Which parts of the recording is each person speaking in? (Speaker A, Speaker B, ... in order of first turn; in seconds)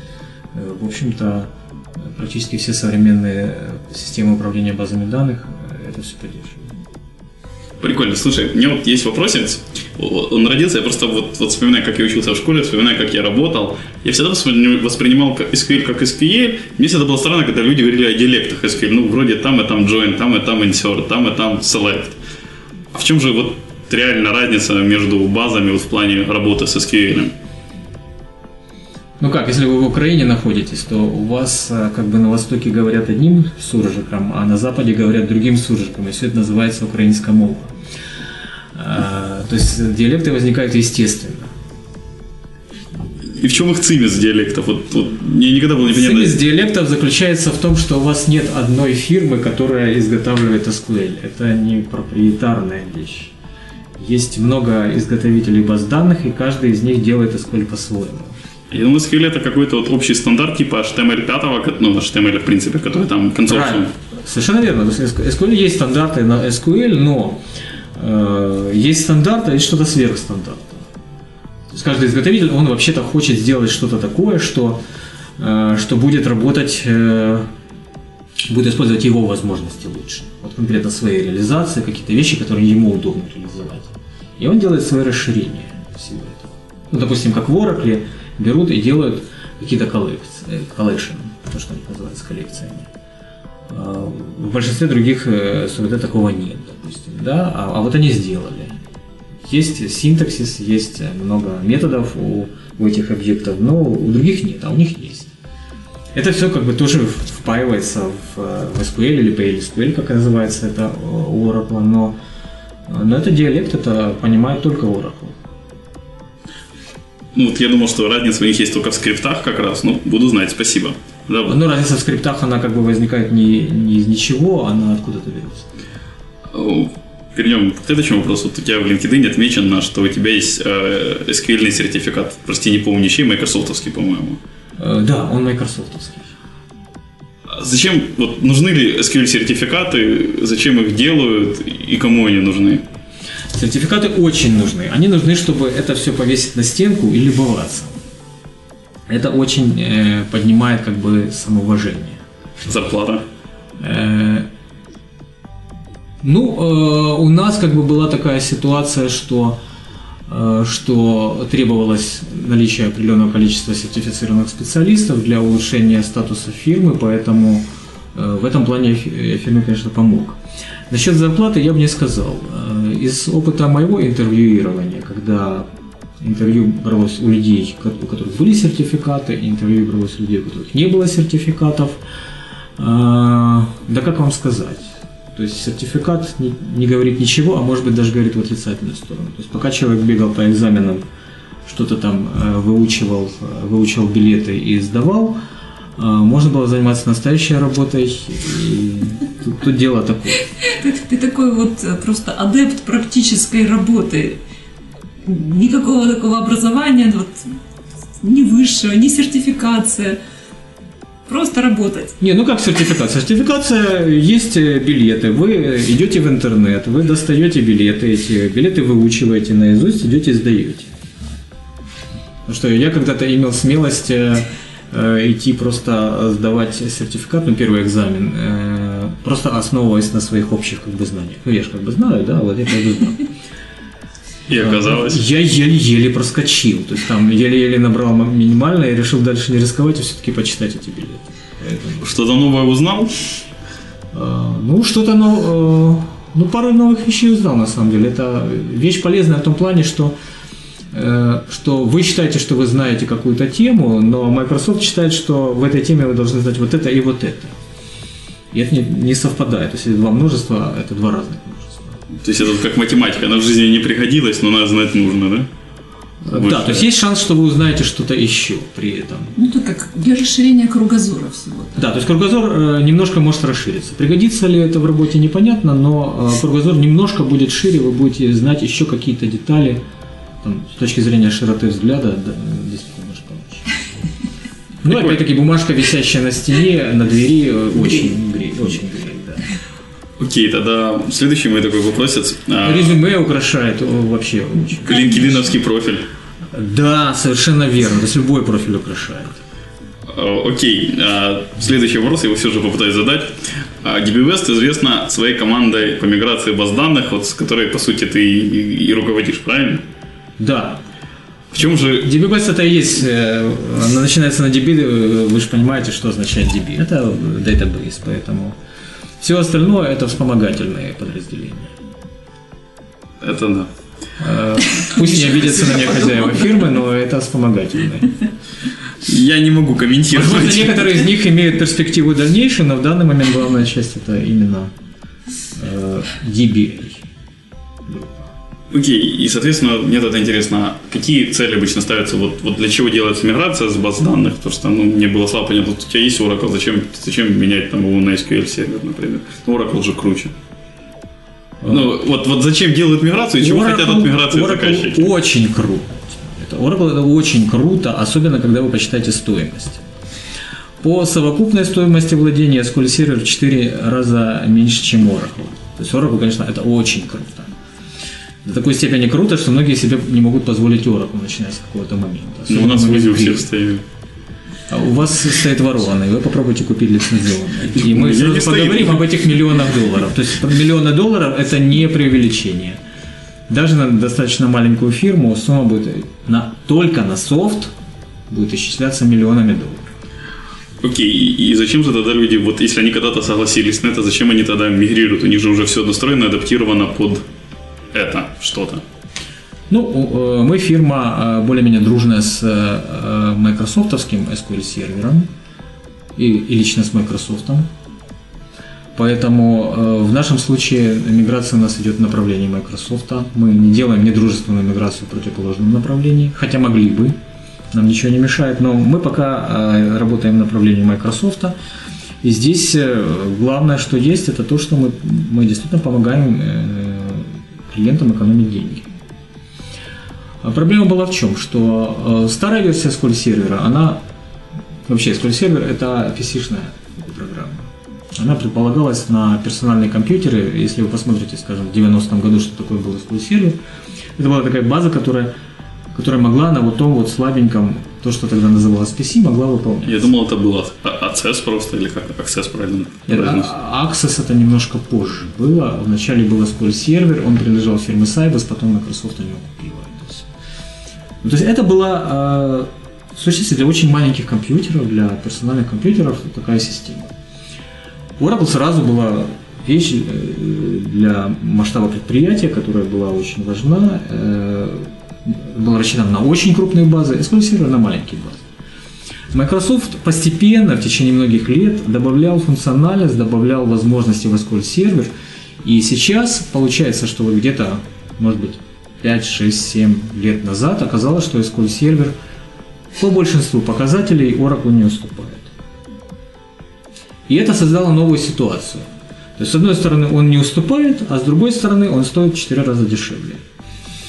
Speaker A: 0.5-6.7, 29.2-37.7, 38.7-41.5, 45.9-53.3, 54.0-58.4, 63.5-67.4, 67.9-70.8, 71.7-74.8, 75.4-77.5, 78.5-92.9, 93.7-98.8, 99.4-105.3, 106.1-112.2, 112.9-115.3, 121.5-125.7, 134.8-136.3, 143.5-148.0, 149.1-152.2, 153.8-154.5, 156.2-159.6, 160.3-170.4, 170.9-175.7, 176.2-182.0, 182.8-191.0, 191.7-195.4, 196.0-200.5, 212.2-220.9, 222.5-233.3, 234.5-242.1, 244.1-250.1, 250.9-257.5, 258.5-262.0, 266.2-269.4, 271.8-279.8, 280.4-283.7, 284.8-289.5, 292.6-295.3, 296.5-299.4, 310.4-310.8, 311.9-318.6, 319.2-321.7, 324.2-328.2, 330.1-334.7, 335.5-337.0, 337.9-338.3, 351.6-351.9, 353.4-359.8, 360.8-367.5, 368.4-373.5, 374.7-382.8, 383.5-387.7, 388.3-389.9, 399.7-405.3, 406.2-407.7, 408.9-417.1, 417.7-421.5, 422.2-428.9, 430.4-434.0, 434.9-443.6, 444.2-445.3, 445.9-450.1, 453.1-460.3, 461.2-467.1, 468.2-478.4, 479.3-485.1, 485.6-492.1, 492.9-495.5, 497.3-498.9, 499.4-503.4
Speaker B: 7.8-22.2, 22.9-27.3, 43.3-46.4, 58.7-63.9, 117.3-121.5, 126.5-134.4, 137.5-142.8, 152.6-153.2, 234.5-235.2, 242.0-243.4, 262.1-265.5, 266.4-266.9, 284.9-285.2, 290.2-293.0, 294.9-296.0, 300.1-309.8, 311.5-312.1, 323.2-323.7, 329.0-331.0, 338.7-350.3, 351.7-355.1, 372.5-373.8, 377.7-379.5, 390.8-397.2, 397.9-398.8, 449.8-453.5
Speaker C: 200.6-204.4, 205.2-207.4, 208.2-210.2, 211.3-212.2, 269.4-271.8